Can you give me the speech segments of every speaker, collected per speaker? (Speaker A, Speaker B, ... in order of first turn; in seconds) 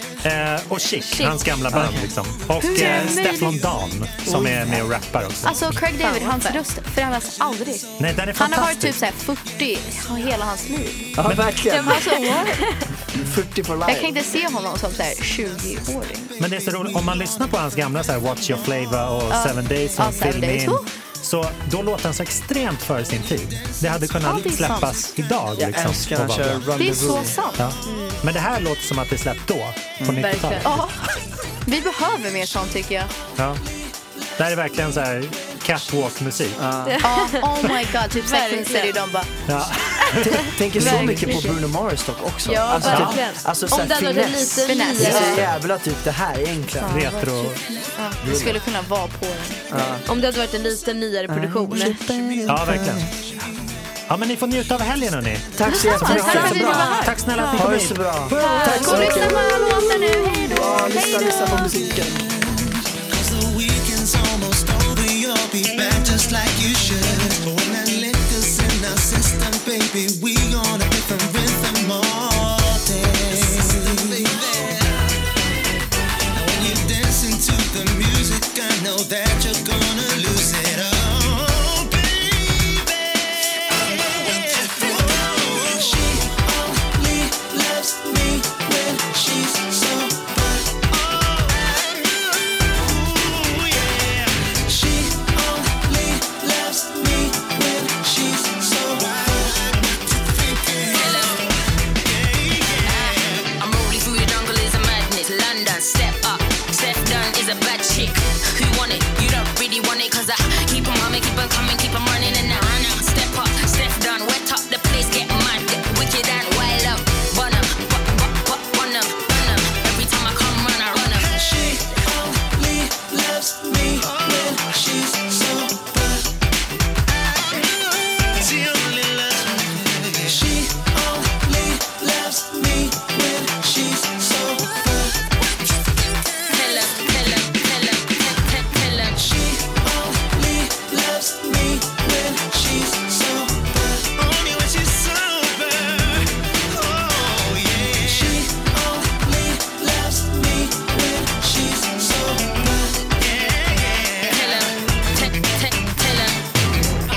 Speaker A: 0.2-5.8, 8.0-9.0, 11.2-11.6, 16.4-26.8, 27.5-30.9, 33.4-33.6, 34.4-36.6, 39.5-40.5, 42.8-43.2, 45.0-45.6, 46.8-47.6, 52.5-53.1, 54.1-59.4
Speaker B: 1.0-1.4, 2.6-3.5, 6.0-6.6, 11.7-12.9, 27.8-28.2, 30.1-30.7, 36.8-39.0, 40.2-41.6, 42.4-45.3, 50.0-52.0, 55.7-57.5, 58.4-61.6
Speaker C: 1.7-2.1, 2.7-3.3, 4.2-4.9, 11.2-12.1, 13.1-14.1, 25.5-27.4, 30.0-30.4, 36.5-37.1, 40.1-47.0, 48.2-48.6, 49.7-50.0, 51.3-53.2, 55.5-57.0, 57.5-62.2
Speaker D: 2.6-3.6, 5.4-11.1, 11.8-12.6, 13.8-16.3, 19.3-20.9, 24.2-25.1, 26.7-27.8, 30.6-33.1, 37.0-39.3, 40.9-41.3, 44.6-45.4, 46.8-50.0, 55.7-57.8, 58.4-61.7
Speaker E: 3.6-4.0, 7.3-7.8, 14.7-17.4, 18.3-18.7, 23.5-24.8, 33.6-34.2, 52.0-53.6, 61.6-75.0, 76.3-101.5, 102.0-103.5, 121.1-126.2, 127.3-135.4, 139.0-154.7
Speaker F: 100.9-101.4, 102.8-121.2, 136.5-139.1, 154.2-156.4